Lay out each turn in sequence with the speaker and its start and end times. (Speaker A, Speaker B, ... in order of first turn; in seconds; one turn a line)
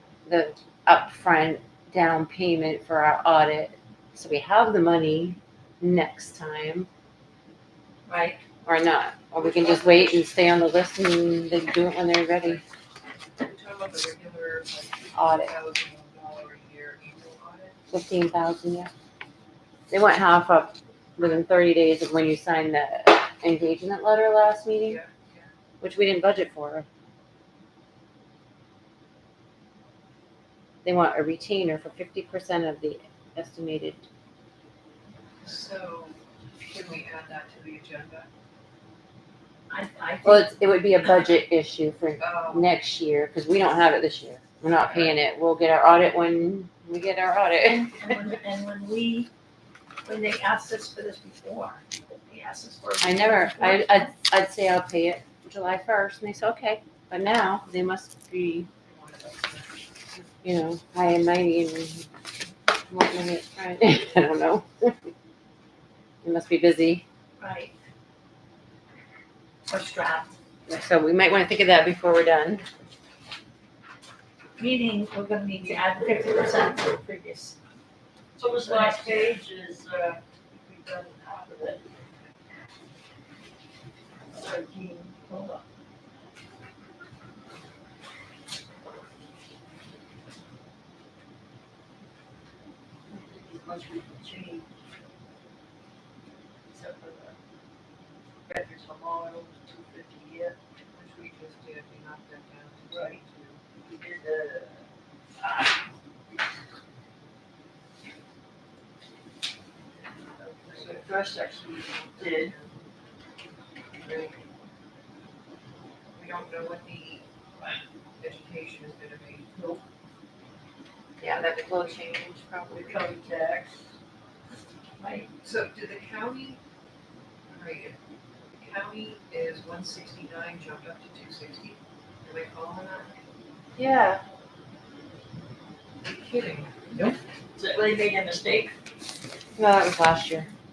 Speaker A: 0.3-6.9
Speaker B: 8.1-8.4
Speaker A: 8.7-12.6
Speaker C: 9.4-10.2
Speaker C: 13.4-17.8
Speaker A: 15.2-15.5
Speaker A: 17.9-18.9
Speaker A: 19.9-25.0
Speaker C: 24.9-25.5
Speaker A: 25.8-26.9
Speaker A: 30.9-34.0
Speaker C: 35.4-38.3
Speaker B: 39.7-40.5
Speaker A: 40.2-48.0
Speaker C: 42.2-42.7
Speaker C: 44.7-45.1
Speaker B: 47.7-49.3
Speaker B: 50.0-54.1
Speaker A: 53.0-58.7
Speaker C: 58.9-59.7
Speaker A: 60.4-62.1
Speaker A: 62.9-65.1
Speaker A: 66.2-67.0
Speaker B: 67.4-67.7
Speaker B: 69.7-70.3
Speaker A: 70.7-72.7
Speaker B: 74.6-77.6
Speaker D: 78.4-81.8
Speaker B: 78.5-79.4
Speaker D: 84.3-85.4
Speaker D: 93.2-94.7
Speaker D: 96.7-97.4
Speaker D: 98.5-100.6
Speaker C: 100.9-103.6
Speaker D: 102.9-103.2
Speaker D: 103.8-104.9
Speaker D: 105.4-105.8
Speaker D: 110.4-112.5
Speaker C: 110.7-111.1
Speaker C: 111.9-112.9
Speaker C: 114.0-114.4
Speaker C: 116.1-117.3
Speaker C: 118.2-119.5
Speaker D: 119.5-119.8
Speaker A: 121.2-123.1
Speaker C: 121.4-121.8
Speaker D: 122.7-123.9
Speaker B: 125.0-125.3
Speaker C: 125.4-126.6
Speaker C: 127.5-128.0
Speaker C: 128.5-133.2
Speaker A: 133.8-134.2
Speaker C: 136.0-136.9
Speaker D: 136.9-138.7
Speaker A: 139.6-140.5